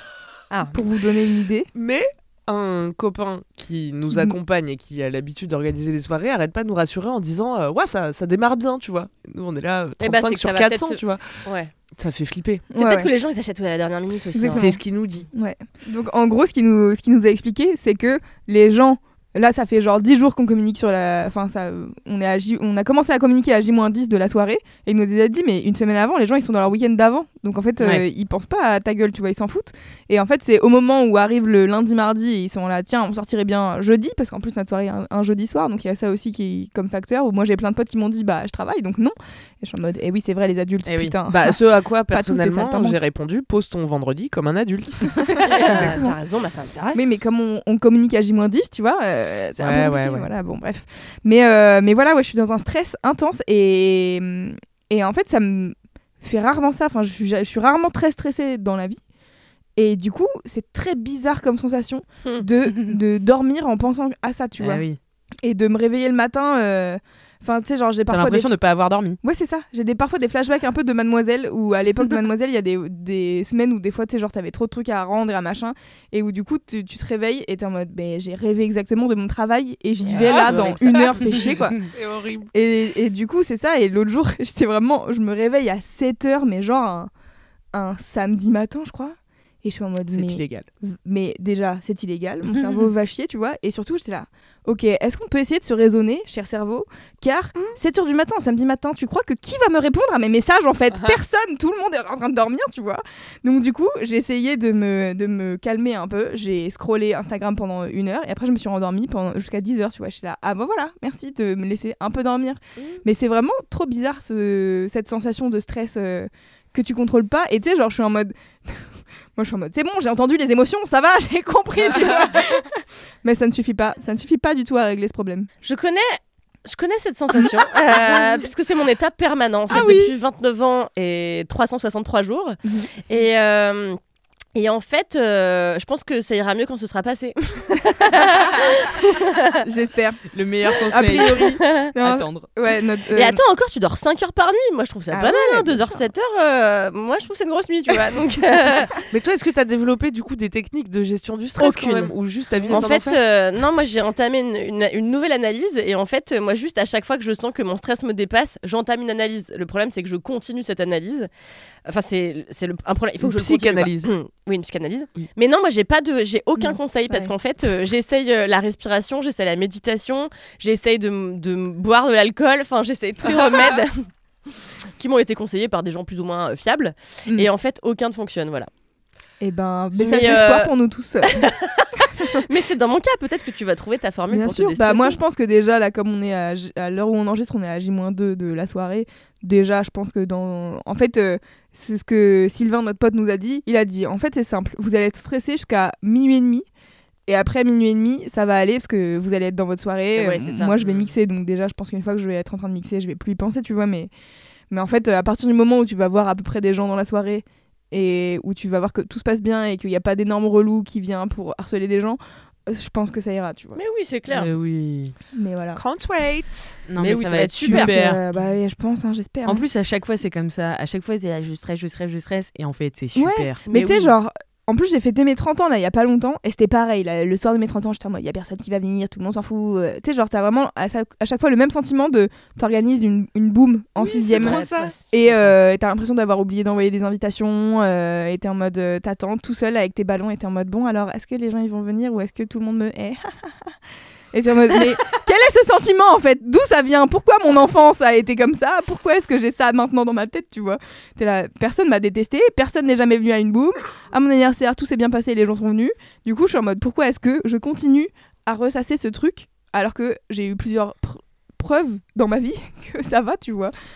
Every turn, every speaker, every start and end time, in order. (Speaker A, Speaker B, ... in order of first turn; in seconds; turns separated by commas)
Speaker A: 0.5-0.8, Speaker B: 0.7-1.7, Speaker C: 1.7-11.2, Speaker B: 4.0-4.4, Speaker A: 10.0-11.7, Speaker C: 11.9-12.7, Speaker B: 12.7-13.1, Speaker A: 12.7-14.6, Speaker B: 14.3-43.0, Speaker C: 14.5-15.3, Speaker C: 41.2-45.9, Speaker B: 45.1-46.1, Speaker A: 45.4-47.0, Speaker B: 46.9-59.0, Speaker C: 49.6-50.2, Speaker B: 59.8-64.8, Speaker D: 64.6-65.0, Speaker B: 65.4-68.5, Speaker D: 68.1-69.2, Speaker B: 69.2-81.8, Speaker A: 80.1-80.8, Speaker C: 80.2-81.4, Speaker C: 81.9-82.5, Speaker B: 82.5-87.1, Speaker B: 87.7-125.5, Speaker C: 90.1-90.7, Speaker C: 100.9-101.2, Speaker A: 125.6-134.0, Speaker B: 132.6-132.9, Speaker A: 134.5-139.6, Speaker B: 139.6-140.2, Speaker D: 140.3-142.5, Speaker B: 140.9-143.4, Speaker A: 141.1-141.9, Speaker A: 143.1-149.0, Speaker B: 145.1-146.0, Speaker C: 149.1-153.2, Speaker A: 151.6-152.1, Speaker A: 152.7-161.3, Speaker A: 161.8-174.1, Speaker C: 163.2-164.1, Speaker B: 166.6-167.3, Speaker A: 175.0-178.7, Speaker B: 179.4-181.4, Speaker A: 180.0-180.7, Speaker A: 181.3-185.2, Speaker B: 184.3-196.7, Speaker B: 197.3-204.1, Speaker A: 200.1-200.8, Speaker B: 204.7-213.8, Speaker A: 213.8-214.5, Speaker C: 214.3-215.1, Speaker B: 215.3-215.8, Speaker C: 215.8-216.8, Speaker D: 216.9-218.2, Speaker A: 217.0-218.0, Speaker B: 217.6-219.7, Speaker D: 219.4-223.6, Speaker B: 223.2-243.7, Speaker A: 223.7-224.1, Speaker C: 234.0-234.9, Speaker A: 234.3-235.1, Speaker B: 244.3-263.7